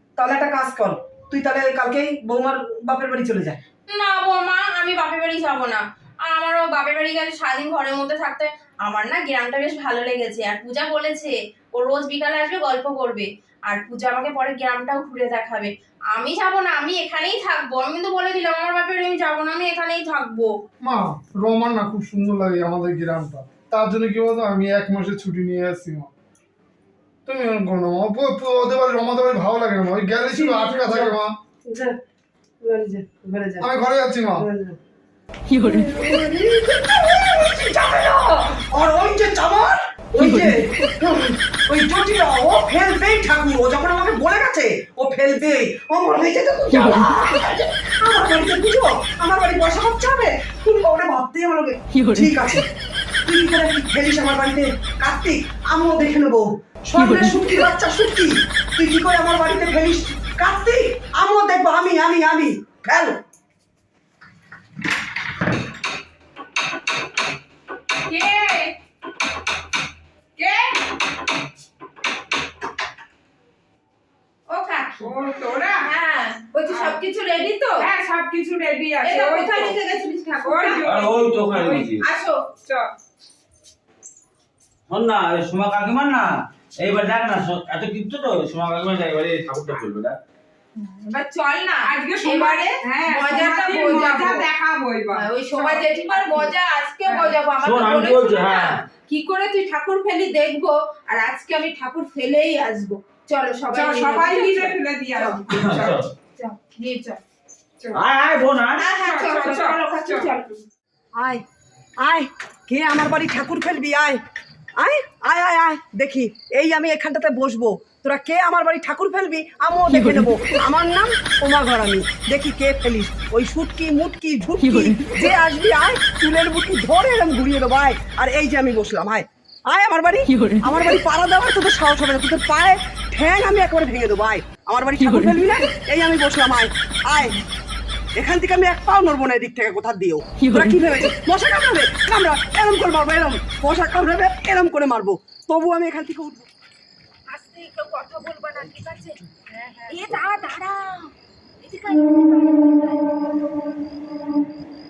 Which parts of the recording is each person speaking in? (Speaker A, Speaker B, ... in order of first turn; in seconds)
Speaker A: 0.2-3.6, 30.3-31.1, 31.6-32.0, 32.6-33.7, 34.3-34.8, 35.5-52.7, 53.2-63.2, 111.2-111.4, 112.0-114.2, 114.8-137.4, 138.2-146.5
Speaker B: 3.9-20.6
Speaker C: 20.8-26.1, 27.2-31.3, 33.6-34.5
Speaker D: 68.1-68.7, 70.4-70.8, 75.0-75.9, 76.7-77.0, 77.8-79.8, 80.4-81.9, 82.7-82.9, 91.9-96.5, 97.1-97.3, 103.7-106.0, 108.9-110.3
Speaker E: 74.5-75.1, 75.7-77.9, 79.0-81.0, 82.0-82.4, 90.8-94.5, 95.1-105.4, 106.4-107.2, 108.8-110.6, 147.3-149.2, 149.9-153.1
Speaker F: 80.8-82.0, 84.9-90.2, 97.6-98.8, 105.5-106.1, 107.9-108.8, 149.3-150.0